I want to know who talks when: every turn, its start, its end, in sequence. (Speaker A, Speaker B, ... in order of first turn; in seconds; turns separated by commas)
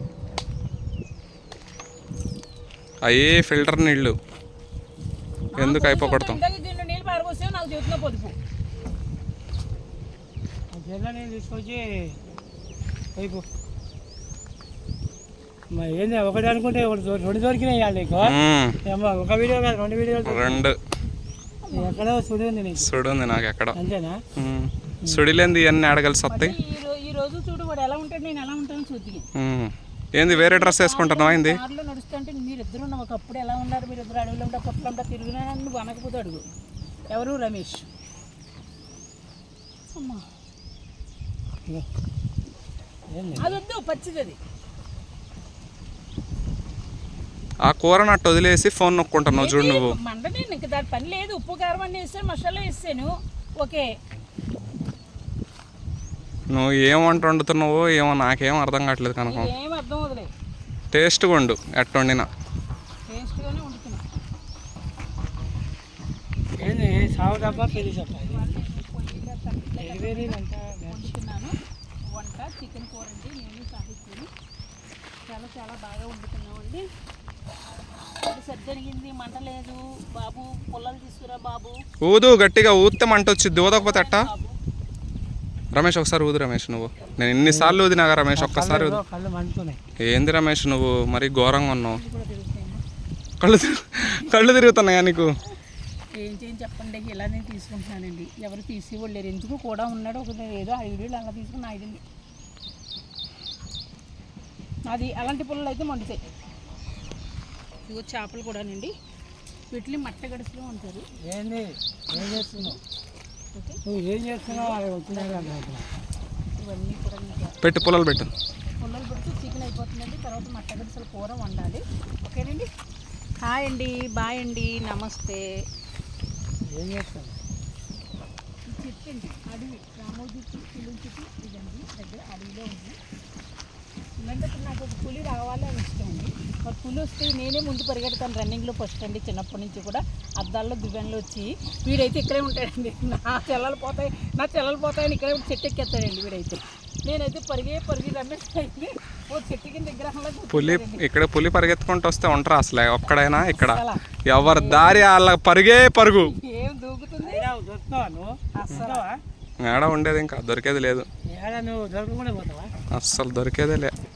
Speaker A: 3.0-4.2, Speaker B: 5.5-8.4, Speaker A: 5.6-6.4, Speaker C: 10.7-12.2, Speaker C: 13.2-13.4, Speaker C: 15.7-20.6, Speaker A: 18.2-18.8, Speaker A: 20.2-20.8, Speaker B: 21.6-22.1, Speaker C: 21.7-22.9, Speaker A: 22.8-23.8, Speaker C: 23.7-24.2, Speaker A: 24.4-26.6, Speaker B: 26.3-29.3, Speaker A: 29.4-31.6, Speaker B: 30.2-36.4, Speaker B: 37.1-37.9, Speaker B: 39.9-40.2, Speaker C: 43.1-43.6, Speaker B: 43.4-44.4, Speaker A: 47.6-50.0, Speaker B: 49.3-53.9, Speaker A: 56.5-59.5, Speaker B: 59.3-60.3, Speaker A: 60.9-62.3, Speaker B: 63.1-64.0, Speaker C: 66.6-68.5, Speaker B: 67.2-71.5, Speaker C: 69.8-71.1, Speaker B: 72.1-74.3, Speaker B: 75.2-76.8, Speaker B: 78.2-81.8, Speaker A: 82.0-84.2, Speaker B: 83.7-84.5, Speaker A: 85.7-89.0, Speaker C: 87.5-87.8, Speaker C: 88.3-89.8, Speaker A: 90.1-92.0, Speaker B: 91.9-92.8, Speaker A: 93.4-95.3, Speaker B: 96.2-102.0, Speaker B: 104.9-106.2, Speaker B: 107.9-108.9, Speaker B: 109.7-111.1, Speaker C: 111.2-112.8, Speaker B: 112.1-112.8, Speaker B: 113.5-113.8, Speaker C: 113.8-115.9, Speaker B: 114.5-115.6, Speaker B: 116.6-117.6, Speaker A: 117.6-118.3, Speaker B: 118.8-122.7, Speaker B: 123.4-125.4, Speaker C: 126.7-127.4, Speaker B: 128.7-133.0, Speaker B: 134.2-151.0, Speaker A: 150.5-156.3, Speaker B: 153.1-155.1, Speaker B: 156.2-157.5, Speaker C: 157.2-159.2, Speaker B: 158.5-159.1, Speaker A: 159.6-161.1, Speaker C: 161.3-162.7, Speaker A: 162.9-163.9